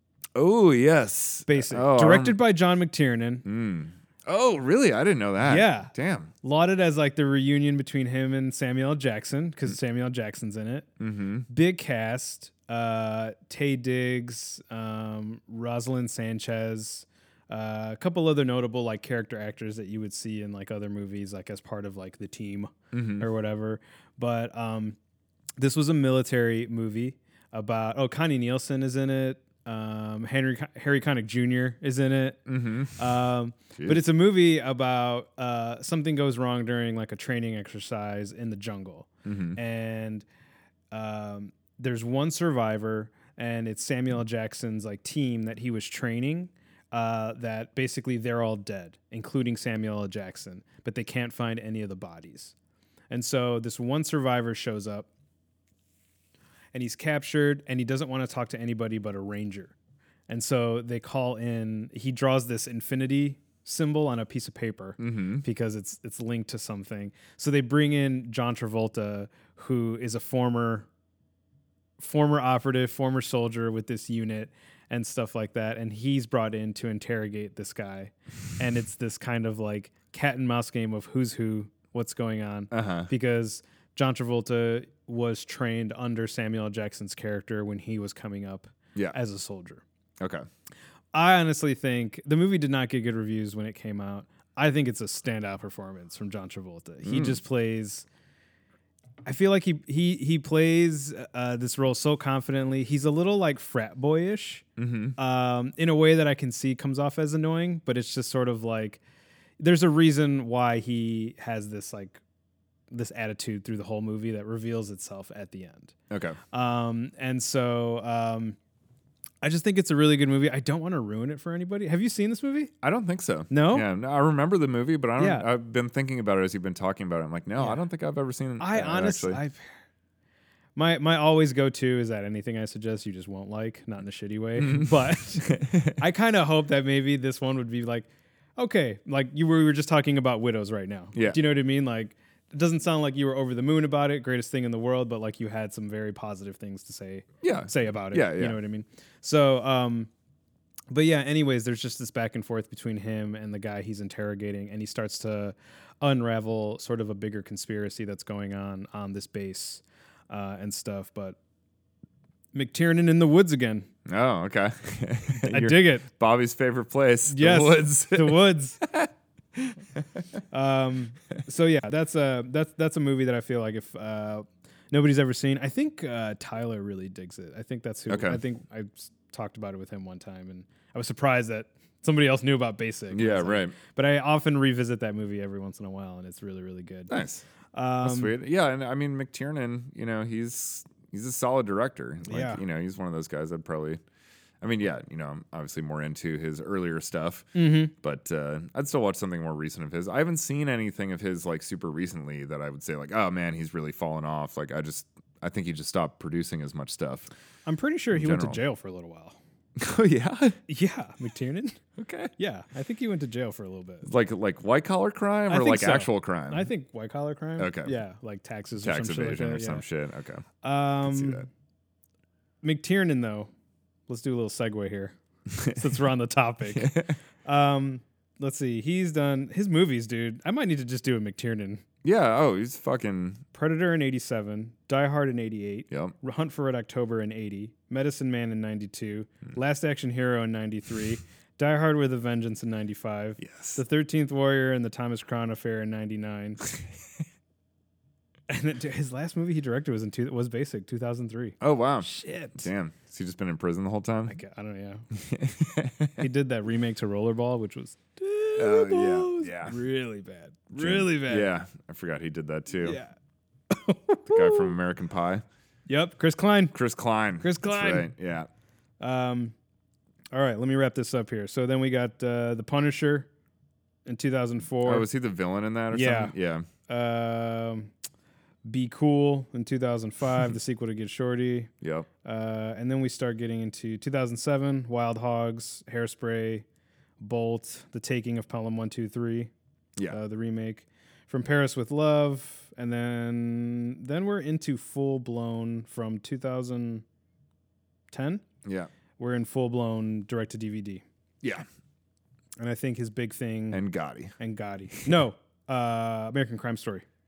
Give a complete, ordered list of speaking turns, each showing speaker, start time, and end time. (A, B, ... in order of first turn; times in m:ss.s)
0:00.4-0:02.4 A
0:01.5-0:03.4 B
0:03.4-0:06.3 A
0:05.4-0:10.9 B
0:11.0-0:11.5 A
0:11.5-0:25.0 B
0:22.9-0:23.3 A
0:25.6-0:32.4 B
0:32.5-0:33.0 A
0:33.0-0:40.2 B
0:33.8-0:34.0 A
0:39.2-0:39.6 A
0:40.9-0:52.5 B
0:53.1-0:55.1 B
0:56.7-0:59.7 B
1:00.3-1:10.9 B
1:05.0-1:05.4 A
1:12.0-1:29.8 B
1:22.7-1:23.1 A
1:30.2-1:30.5 A
1:31.1-1:38.1 B
1:37.0-1:37.4 A
1:39.3-1:44.6 B
1:44.8-1:45.2 A
1:45.2-1:49.0 B
1:49.6-1:52.2 B
1:52.9-1:55.9 B
1:56.1-1:56.4 A
1:56.5-1:58.6 B
1:59.4-2:02.7 B
2:02.8-2:09.4 A
2:03.5-2:03.9 B
2:05.2-2:05.4 B
2:08.6-2:09.7 B
2:10.8-2:30.1 B
2:14.6-2:16.0 A
2:27.4-2:28.6 A
2:30.9-2:41.4 B
2:42.5-2:43.9 B
2:44.1-2:50.2 A
2:45.4-2:46.1 B
2:47.3-2:48.8 B
2:50.5-3:07.1 B
2:58.1-2:58.4 A
3:03.1-3:03.8 A
3:07.1-3:07.4 A
3:07.7-3:08.3 B
3:08.0-3:14.0 A
3:12.3-3:12.6 B
3:14.6-3:27.3 A
3:17.6-3:17.9 B
3:27.7-3:29.4 B
3:28.1-3:28.6 A
3:29.8-3:30.6 A
3:30.7-3:31.8 B
3:32.0-3:32.3 A
3:32.4-3:34.1 B
3:34.0-3:36.7 A
3:35.5-3:39.8 B
3:37.6-3:38.0 A
3:38.8-3:40.4 A
3:40.6-3:41.5 B
3:41.0-3:41.4 A
3:42.6-3:43.5 B
3:44.1-3:51.8 B
3:45.5-3:45.8 A
3:46.7-3:47.1 A
3:52.0-3:53.4 A
3:53.5-4:06.7 B
4:03.4-4:03.8 A
4:08.5-4:12.7 B
4:11.6-4:14.4 A
4:14.3-4:15.1 B
4:15.1-4:16.2 A
4:16.2-4:21.5 B
4:18.6-4:19.8 A
4:20.7-4:23.0 A
4:22.8-4:23.1 B
4:23.7-4:24.7 B
4:24.3-4:25.4 A
4:25.9-4:26.8 B
4:26.7-4:28.5 A
4:27.4-4:28.1 B
4:29.0-4:29.6 B
4:30.3-4:33.3 B
4:34.1-4:35.1 B
4:34.8-4:36.7 A
4:35.9-4:36.3 B
4:36.9-4:37.9 B
4:38.6-4:41.7 B
4:41.8-4:42.1 A
4:42.2-4:46.6 B
4:47.2-4:49.5 B
4:50.1-4:57.0 B
4:58.1-4:58.4 B
4:58.6-4:58.9 A
4:59.2-5:01.0 B
5:02.6-5:03.8 B
5:03.7-5:04.3 A
5:04.4-5:07.0 B